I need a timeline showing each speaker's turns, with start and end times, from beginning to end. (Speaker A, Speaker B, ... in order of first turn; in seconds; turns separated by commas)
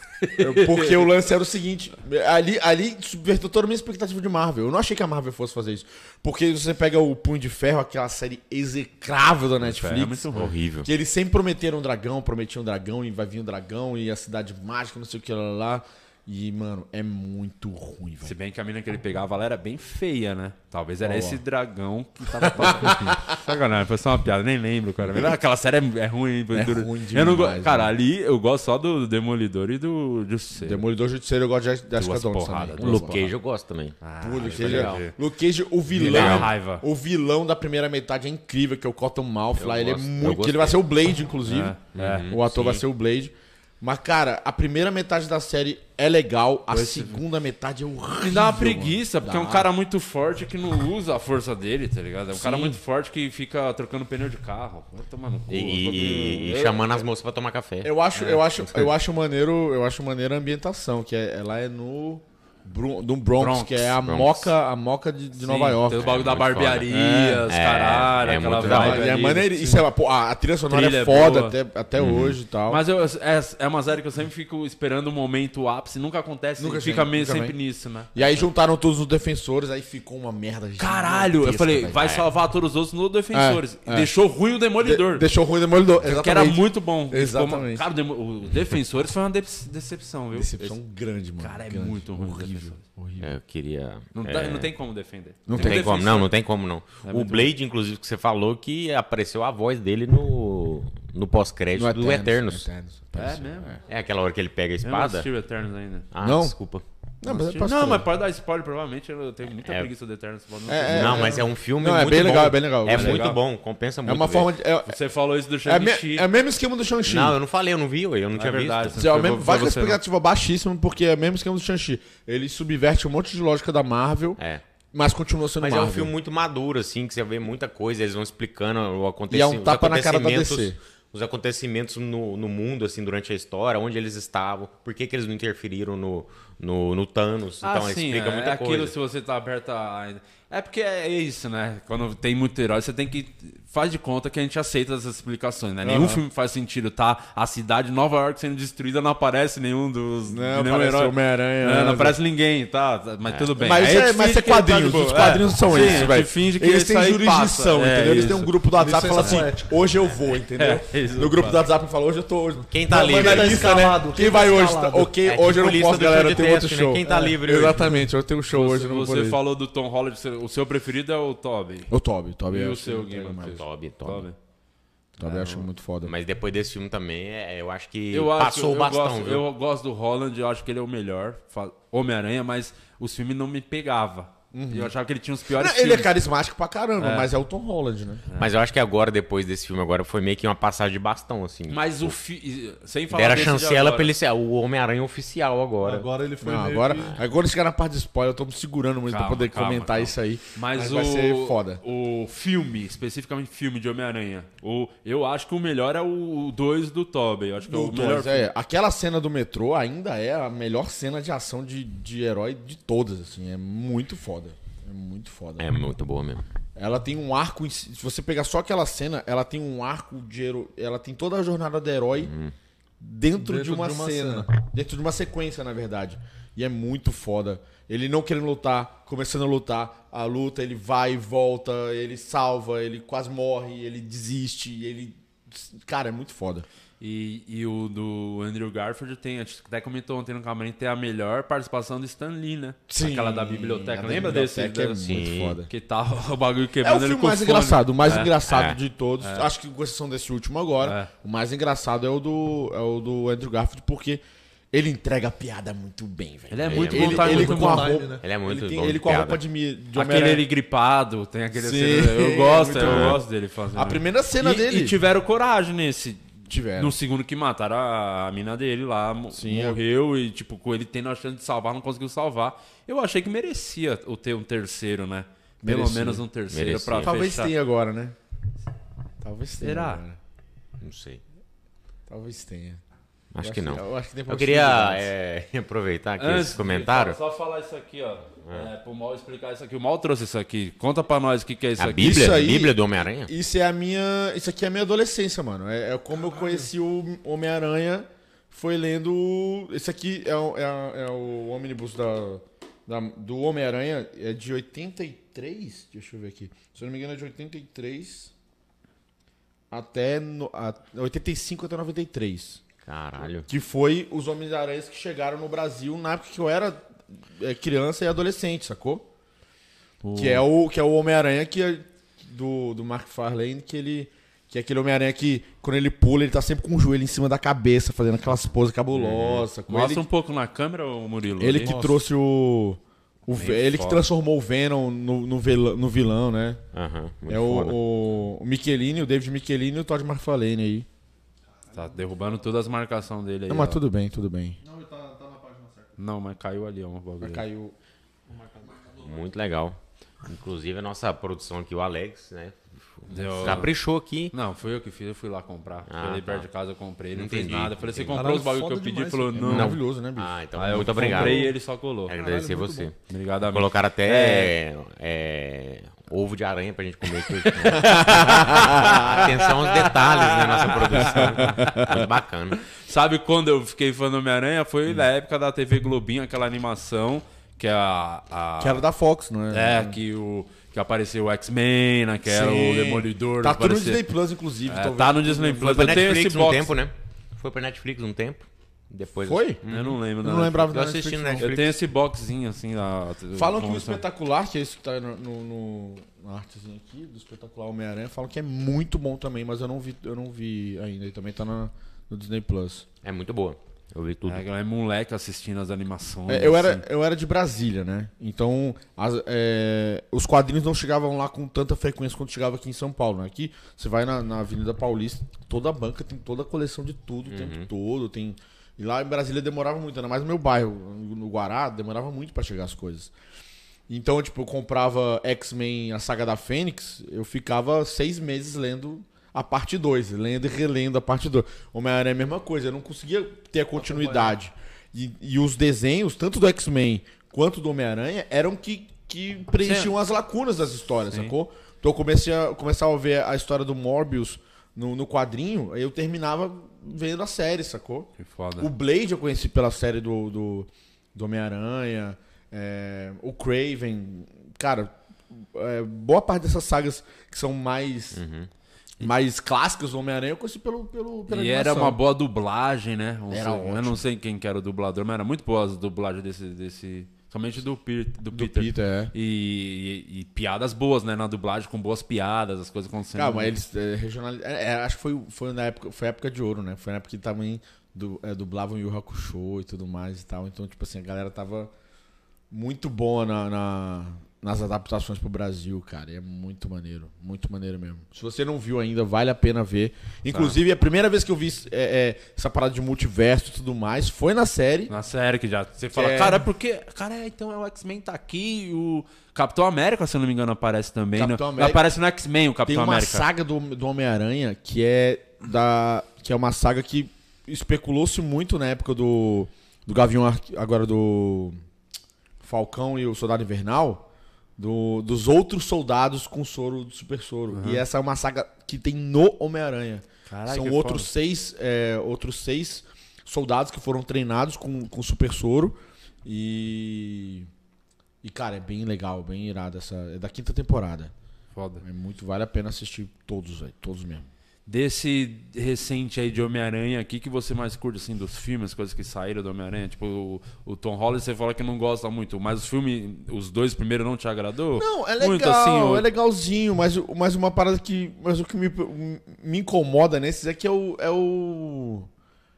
Speaker A: 0.2-1.1, Speaker B: 0.4-10.3, Speaker A: 9.6-10.5, Speaker C: 10.3-10.9, Speaker B: 10.8-18.4, Speaker A: 18.2-30.8, Speaker B: 21.0-21.4, Speaker B: 22.4-23.4, Speaker B: 25.1-25.3, Speaker B: 26.5-27.9, Speaker B: 30.6-33.2, Speaker A: 32.0-33.3, Speaker C: 32.8-35.1, Speaker A: 34.0-35.1, Speaker B: 34.2-41.8, Speaker A: 35.9-36.8, Speaker C: 36.0-36.5, Speaker C: 39.6-40.8, Speaker A: 41.5-42.4, Speaker C: 41.9-42.8, Speaker B: 42.3-49.7, Speaker A: 46.7-47.2, Speaker A: 48.3-57.0, Speaker B: 52.3-52.8, Speaker C: 55.5-57.9, Speaker B: 57.8-66.1, Speaker A: 58.2-58.5, Speaker A: 63.4-64.0, Speaker C: 64.0-64.5, Speaker A: 65.4-69.9, Speaker C: 66.0-66.9, Speaker B: 66.9-67.5, Speaker C: 67.5-69.0, Speaker B: 68.6-72.8, Speaker A: 70.7-71.6, Speaker C: 72.0-72.4, Speaker A: 72.7-78.5, Speaker B: 76.6-77.6, Speaker B: 78.1-82.1, Speaker A: 80.8-85.3, Speaker C: 82.0-82.3, Speaker B: 83.3-84.1, Speaker B: 84.8-87.9, Speaker A: 86.0-90.8, Speaker B: 90.3-93.3, Speaker A: 91.4-92.8, Speaker C: 93.2-94.7, Speaker A: 94.2-96.3, Speaker B: 95.5-96.0, Speaker C: 95.6-102.7, Speaker A: 97.0-97.5, Speaker B: 101.7-103.8, Speaker A: 103.2-103.8, Speaker C: 103.9-105.3, Speaker A: 104.8-106.1, Speaker C: 106.1-106.8, Speaker B: 106.2-106.5, Speaker B: 107.2-108.1, Speaker A: 107.2-111.4, Speaker C: 109.6-109.9, Speaker B: 110.7-113.4, Speaker C: 110.9-114.5, Speaker A: 112.9-113.4, Speaker B: 114.0-115.0, Speaker A: 114.9-116.3, Speaker B: 115.6-117.4, Speaker C: 117.1-119.1, Speaker A: 118.4-120.0, Speaker B: 119.0-124.4, Speaker B: 124.9-126.1, Speaker C: 125.6-138.9, Speaker B: 129.3-130.8, Speaker A: 137.6-158.6, Speaker B: 145.8-146.2, Speaker B: 150.3-152.2, Speaker C: 153.3-153.5, Speaker B: 153.6-169.4, Speaker D: 158.8-159.7, Speaker A: 160.6-161.6, Speaker C: 162.7-163.8, Speaker D: 162.9-165.1, Speaker C: 165.2-167.9, Speaker D: 167.1-167.4, Speaker A: 168.5-171.9, Speaker B: 171.9-173.6, Speaker A: 172.5-174.4, Speaker C: 173.4-174.3, Speaker B: 175.2-176.1, Speaker A: 175.2-175.7, Speaker C: 176.0-179.4, Speaker A: 178.1-186.1, Speaker B: 184.5-184.9, Speaker B: 185.5-188.2, Speaker A: 187.0-187.3, Speaker C: 188.4-192.2, Speaker A: 191.7-194.1, Speaker C: 193.1-196.1, Speaker D: 195.8-197.1, Speaker B: 196.4-201.8, Speaker A: 199.1-208.4, Speaker B: 207.7-215.7, Speaker C: 215.6-216.4, Speaker B: 216.8-222.3, Speaker C: 222.2-222.5, Speaker B: 223.0-236.7, Speaker D: 223.4-224.5, Speaker A: 237.0-245.1, Speaker B: 242.9-245.7, Speaker C: 245.0-245.6, Speaker A: 245.7-248.4, Speaker B: 246.8-260.4, Speaker C: 248.5-248.8, Speaker A: 249.2-249.5, Speaker A: 250.8-251.1, Speaker A: 256.5-257.9, Speaker C: 256.7-257.6, Speaker D: 257.2-258.2, Speaker C: 258.2-259.4, Speaker A: 259.9-277.5, Speaker B: 261.5-263.2, Speaker C: 262.8-263.2, Speaker B: 263.7-265.0, Speaker B: 266.5-266.9, Speaker B: 269.3-269.8, Speaker B: 275.6-276.2, Speaker C: 276.5-277.1, Speaker B: 277.0-278.1, Speaker B: 279.2-280.2, Speaker A: 279.6-280.0, Speaker C: 280.8-281.2, Speaker B: 282.1-282.8, Speaker C: 283.3-287.2, Speaker B: 283.4-285.1, Speaker A: 286.2-292.3, Speaker C: 291.8-293.3, Speaker B: 292.0-308.3, Speaker B: 309.7-312.6, Speaker C: 312.9-313.5, Speaker B: 313.4-319.1, Speaker A: 320.0-320.4, Speaker B: 320.1-330.1, Speaker C: 328.9-329.5, Speaker A: 329.7-331.7, Speaker B: 331.4-336.6, Speaker D: 331.6-332.0, Speaker A: 333.3-334.0, Speaker C: 336.7-337.8, Speaker B: 337.3-340.9, Speaker A: 341.7-343.8, Speaker B: 343.5-344.6, Speaker D: 344.6-345.9, Speaker A: 346.0-347.4, Speaker B: 347.2-347.8, Speaker D: 348.3-349.0, Speaker C: 348.9-354.3, Speaker A: 353.1-353.7, Speaker A: 354.3-359.8, Speaker C: 355.9-356.5, Speaker C: 357.1-358.2, Speaker D: 358.1-359.4, Speaker B: 359.4-361.2, Speaker C: 359.5-361.5, Speaker A: 360.6-362.1, Speaker D: 361.2-361.5, Speaker C: 362.1-362.9, Speaker D: 362.1-362.9, Speaker A: 363.1-364.5, Speaker C: 363.5-372.6, Speaker A: 367.4-371.9, Speaker B: 367.8-369.3, Speaker B: 371.0-372.1, Speaker A: 372.8-378.8, Speaker B: 378.6-380.0, Speaker A: 379.5-384.0, Speaker B: 382.3-386.2, Speaker A: 384.7-386.7, Speaker C: 385.7-390.0, Speaker B: 389.3-389.6, Speaker A: 389.7-390.7, Speaker B: 390.2-391.5, Speaker C: 390.6-391.8, Speaker A: 391.4-394.0, Speaker B: 393.3-402.9, Speaker C: 403.0-404.4, Speaker A: 404.3-406.8, Speaker B: 406.3-423.1, Speaker C: 417.3-417.7, Speaker B: 423.9-458.2, Speaker A: 439.6-439.9, Speaker A: 441.1-441.4, Speaker A: 448.2-448.7, Speaker C: 458.1-458.5, Speaker B: 459.0-462.0, Speaker A: 461.3-473.5, Speaker B: 463.3-464.0, Speaker B: 468.3-469.1, Speaker B: 473.1-481.7, Speaker B: 482.5-494.9, Speaker A: 494.9-503.3, Speaker B: 495.9-496.5, Speaker B: 501.1-501.9, Speaker B: 502.7-511.6, Speaker B: 512.4-514.1, Speaker B: 514.6-527.5, Speaker A: 517.5-517.8, Speaker A: 520.3-521.1, Speaker B: 528.2-531.1, Speaker A: 531.5-531.8, Speaker B: 531.8-534.3, Speaker A: 534.7-546.1, Speaker B: 544.8-552.1